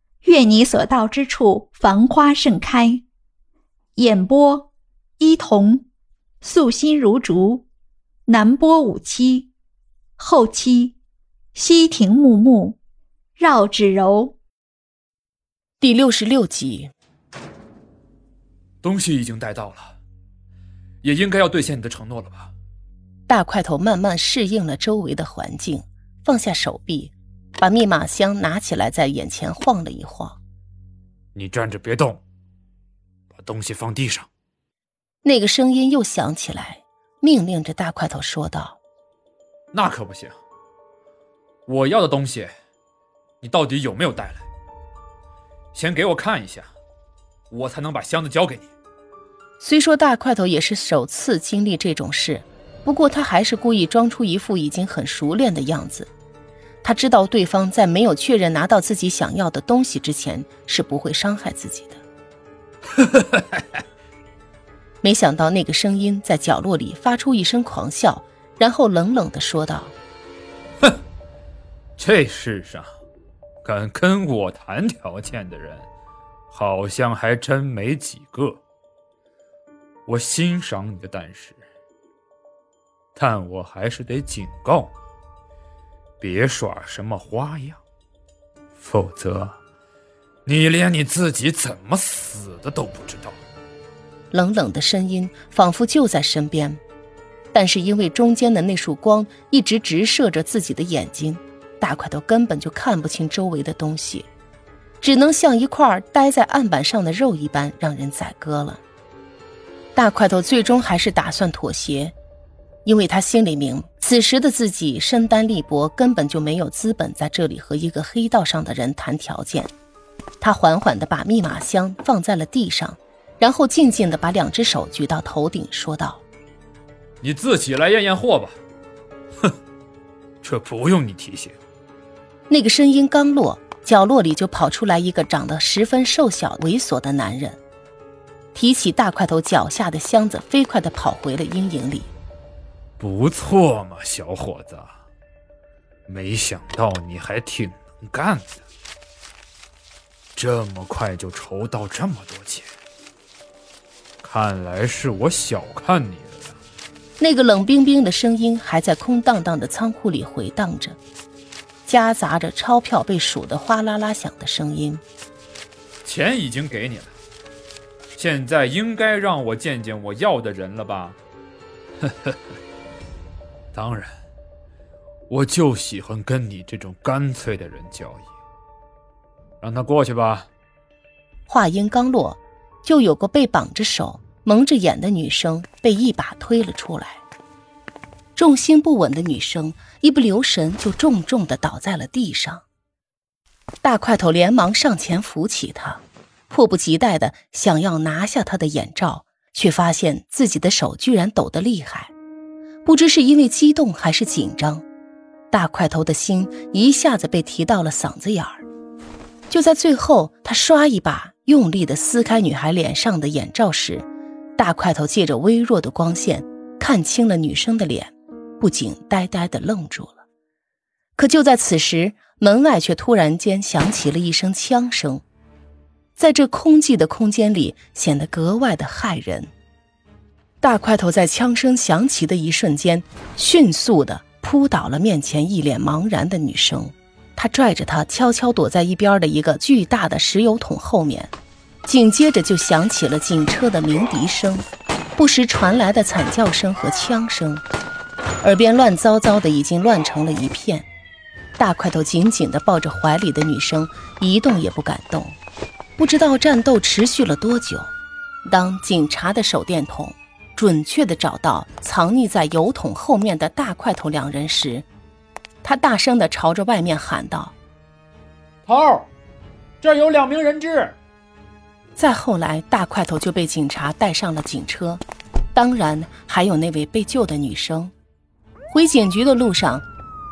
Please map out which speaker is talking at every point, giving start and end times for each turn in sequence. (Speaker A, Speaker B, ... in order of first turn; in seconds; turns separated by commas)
Speaker A: 0.2-3.0, Speaker A: 4.0-5.9, Speaker A: 6.4-7.7, Speaker A: 8.2-9.5, Speaker A: 10.2-11.0, Speaker A: 11.5-12.8, Speaker A: 13.4-14.3, Speaker B: 15.8-16.9, Speaker C: 18.8-19.9, Speaker C: 21.0-22.5, Speaker B: 23.3-30.4, Speaker C: 31.3-32.2, Speaker C: 33.3-34.3, Speaker B: 35.2-38.8, Speaker C: 39.7-40.4, Speaker C: 41.7-42.5, Speaker C: 43.4-44.5, Speaker C: 45.7-46.7, Speaker C: 47.5-48.7, Speaker B: 49.6-56.1, Speaker B: 56.8-62.0, Speaker C: 63.0-63.8, Speaker B: 65.0-69.9, Speaker C: 72.0-72.9, Speaker C: 73.6-75.9, Speaker C: 76.5-78.6, Speaker C: 80.1-81.6, Speaker C: 83.1-84.9, Speaker C: 86.2-87.8, Speaker C: 88.8-89.5, Speaker C: 90.5-93.4, Speaker B: 94.3-96.8, Speaker B: 97.5-104.3, Speaker B: 105.0-108.8, Speaker B: 109.9-112.1, Speaker B: 112.8-119.7, Speaker B: 120.4-126.2, Speaker C: 127.2-128.6, Speaker C: 130.4-131.6, Speaker B: 132.5-137.6, Speaker B: 138.5-142.1, Speaker C: 143.0-144.9, Speaker C: 146.1-148.6, Speaker C: 150.3-152.7, Speaker C: 154.2-156.6, Speaker B: 157.2-161.0, Speaker B: 161.8-165.0, Speaker C: 166.0-167.2, Speaker C: 168.2-171.2, Speaker C: 172.0-172.3, Speaker C: 173.7-174.1, Speaker C: 175.3-178.3, Speaker C: 179.6-180.5, Speaker B: 181.5-187.2, Speaker B: 188.3-192.6, Speaker B: 193.8-202.1, Speaker B: 202.8-204.8, Speaker B: 205.5-208.6, Speaker B: 209.5-214.1, Speaker B: 214.6-220.2, Speaker B: 221.2-225.2, Speaker B: 226.2-229.5, Speaker B: 230.6-241.3, Speaker B: 241.8-244.7, Speaker B: 245.2-247.6, Speaker B: 248.4-250.9, Speaker B: 251.6-255.4, Speaker B: 256.0-257.9, Speaker B: 258.5-264.9, Speaker B: 265.6-267.5, Speaker C: 268.6-269.1, Speaker C: 269.8-271.0, Speaker B: 272.0-275.0, Speaker B: 275.5-277.9, Speaker B: 278.7-279.9